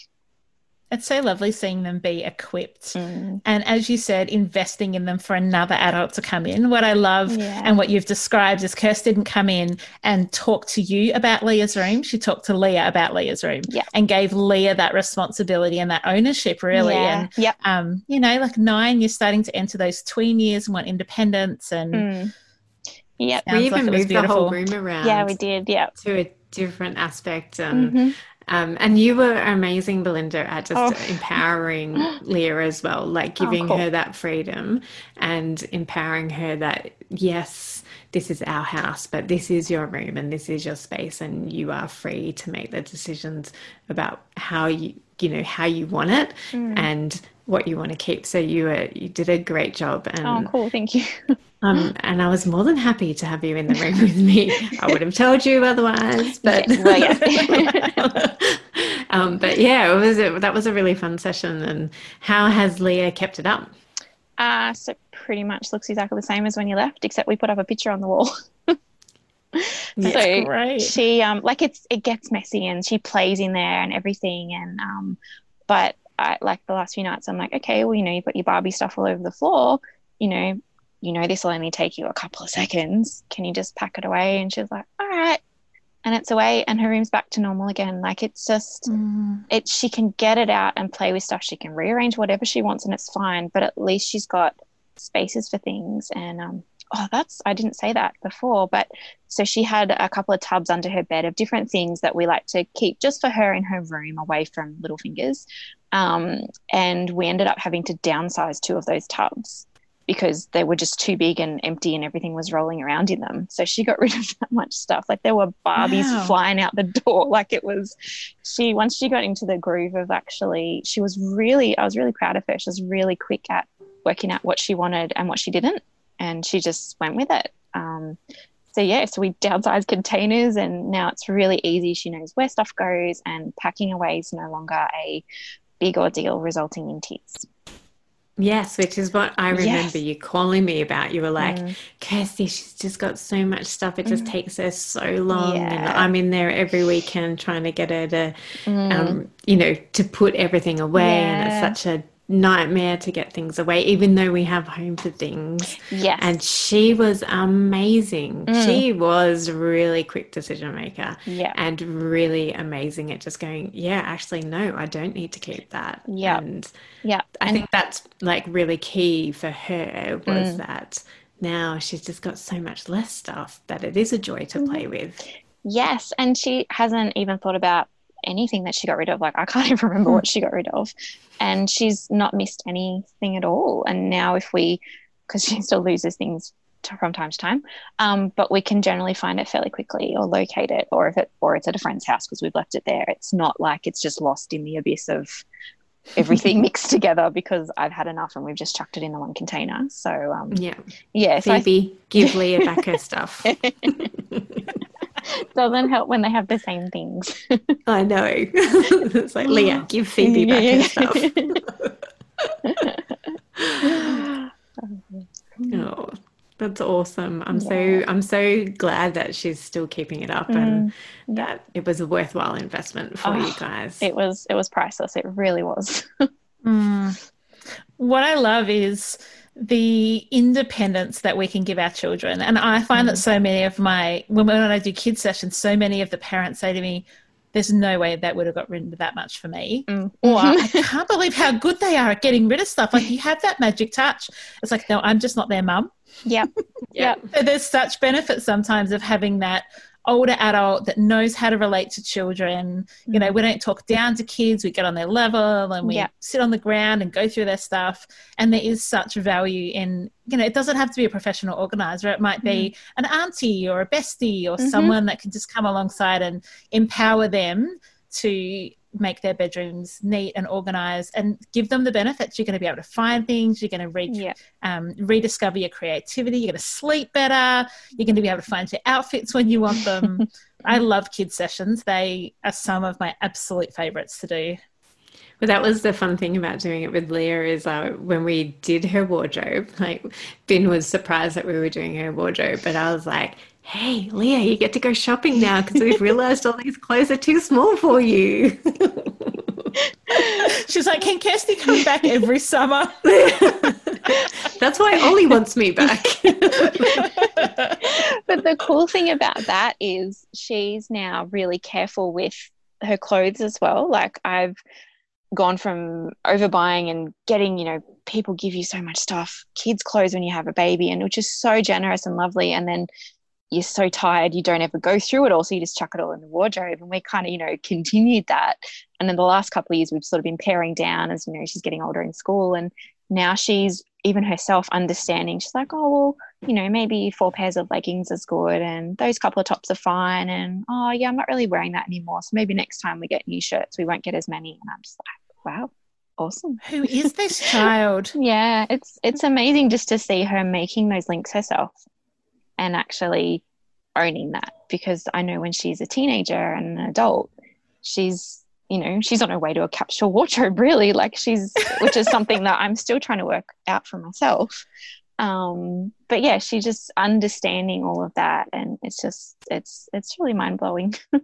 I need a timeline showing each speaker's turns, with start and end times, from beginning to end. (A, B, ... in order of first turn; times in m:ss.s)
0:00.9-0:22.1 A
0:02.9-0:03.4 B
0:07.3-0:07.8 B
0:16.7-0:17.5 B
0:21.9-0:22.3 B
0:23.2-0:23.5 B
0:23.4-0:24.6 A
0:23.5-0:25.3 C
0:25.0-0:25.9 B
0:26.0-0:50.5 C
0:27.7-0:28.2 B
0:30.7-0:31.4 B
0:33.4-0:33.8 B
0:46.5-0:46.9 B
0:50.2-0:51.9 B
0:51.6-1:03.7 C
0:54.6-0:55.0 B
0:56.4-0:58.1 B
1:04.4-1:08.8 B
1:09.5-1:25.4 B
1:10.0-1:10.3 C
1:10.0-1:11.0 A
1:26.0-1:28.9 B
1:28.9-1:29.5 A
1:29.5-2:08.2 B
1:55.8-1:56.3 A
2:08.7-2:15.2 B
2:15.8-2:17.5 B
2:18.4-2:28.3 C
2:19.5-2:20.0 B
2:21.4-2:21.7 B
2:24.0-2:24.3 B
2:25.3-2:26.1 B
2:28.6-2:29.2 B
2:28.9-2:46.7 C
2:31.0-2:31.8 B
2:35.8-2:36.4 B
2:38.5-2:38.8 B
2:41.3-2:41.6 B
2:46.1-2:46.4 B
2:47.0-2:47.6 B
2:47.4-2:55.2 C
2:50.3-2:50.6 B
2:54.6-2:54.8 B
2:55.6-3:15.4 B
3:16.2-3:20.6 B
3:20.5-3:20.8 C
3:21.1-3:22.8 B
3:21.4-3:24.7 C
3:23.4-3:24.0 B
3:25.2-3:27.8 B
3:27.9-3:32.9 C
3:29.4-3:31.6 B
3:32.7-3:33.0 B
3:33.6-3:34.2 C
3:33.8-3:35.9 B
3:35.7-3:44.1 C
3:37.5-3:38.0 B
3:40.5-3:41.5 B
3:43.2-3:46.3 B
3:46.6-3:47.2 A
3:48.0-4:05.9 A
3:52.9-3:53.2 B
3:59.9-4:00.8 B
4:06.2-4:07.2 B
4:06.9-4:07.2 C
4:07.2-4:44.6 A
4:13.1-4:13.4 B
4:15.8-4:16.1 B
4:22.4-4:22.7 B
4:24.6-4:25.0 B
4:34.1-4:34.4 B
4:45.4-4:59.8 C
5:00.1-5:00.5 B
5:00.4-5:03.0 A
5:03.0-5:07.4 C
5:06.5-5:07.1 B
5:07.4-5:07.8 A
5:07.8-5:14.6 B
5:15.3-5:22.9 B
5:23.5-5:46.6 B
5:46.6-5:48.1 A
5:47.4-5:51.8 B
5:52.6-5:53.4 B
5:53.9-5:57.3 B
5:57.8-6:04.7 B
6:05.2-6:11.0 B